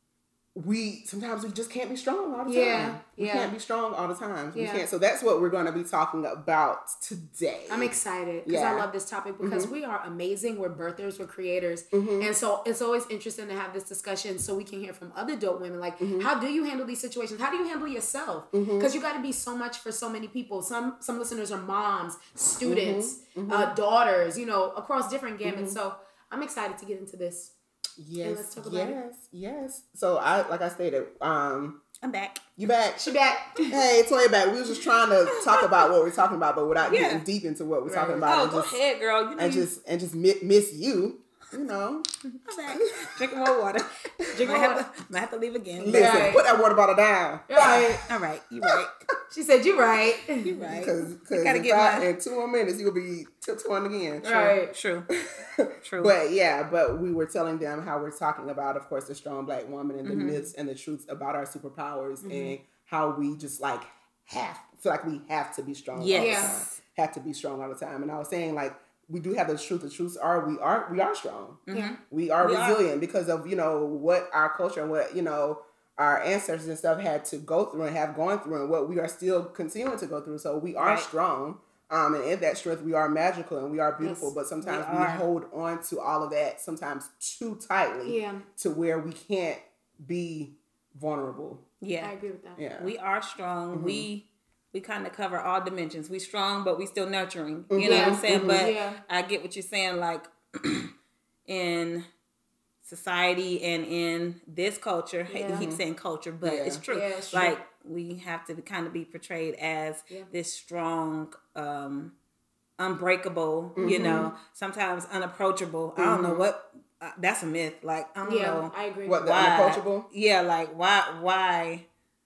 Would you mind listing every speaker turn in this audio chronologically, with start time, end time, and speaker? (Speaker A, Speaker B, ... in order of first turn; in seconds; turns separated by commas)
Speaker A: 0.5-7.9, Speaker B: 2.5-3.5, Speaker B: 4.5-4.8, Speaker B: 7.7-27.5, Speaker A: 8.4-8.9, Speaker A: 9.4-9.7, Speaker A: 11.9-12.3, Speaker A: 16.0-16.3, Speaker A: 18.5-18.9, Speaker A: 22.6-23.7, Speaker A: 25.4-25.8, Speaker A: 28.0-31.8, Speaker B: 28.2-29.0, Speaker C: 32.0-32.5, Speaker A: 32.6-38.7, Speaker B: 33.0-33.7, Speaker C: 35.3-35.9, Speaker C: 36.8-37.2, Speaker B: 37.9-38.2, Speaker C: 38.2-39.7, Speaker A: 39.4-42.1, Speaker C: 42.3-46.4, Speaker A: 42.7-43.5, Speaker A: 44.2-44.5, Speaker B: 44.4-44.8, Speaker A: 45.8-48.0, Speaker B: 45.9-46.4, Speaker B: 47.5-48.0, Speaker C: 48.1-49.0, Speaker B: 49.3-50.5, Speaker C: 50.4-52.1, Speaker A: 50.6-54.5, Speaker B: 54.2-54.7, Speaker C: 54.4-55.1, Speaker A: 55.4-91.6, Speaker C: 55.8-56.1, Speaker C: 60.0-60.5, Speaker B: 62.2-62.5, Speaker C: 65.9-66.8, Speaker B: 66.1-66.6, Speaker C: 71.7-72.8, Speaker B: 71.7-72.0, Speaker C: 80.8-81.0, Speaker B: 84.0-84.3, Speaker C: 84.6-85.2, Speaker B: 88.0-88.4, Speaker C: 91.8-92.1, Speaker B: 92.0-92.6, Speaker A: 92.5-92.9, Speaker C: 92.8-100.9, Speaker A: 93.7-94.1, Speaker A: 97.7-98.7, Speaker B: 97.8-99.0, Speaker C: 101.5-102.0, Speaker C: 102.8-112.1, Speaker B: 105.3-105.7, Speaker A: 105.5-105.8, Speaker A: 106.4-106.8, Speaker B: 106.9-107.5, Speaker C: 112.8-121.8, Speaker A: 113.8-114.3, Speaker B: 113.8-114.3, Speaker A: 116.0-116.5, Speaker B: 118.2-119.3, Speaker A: 119.0-120.1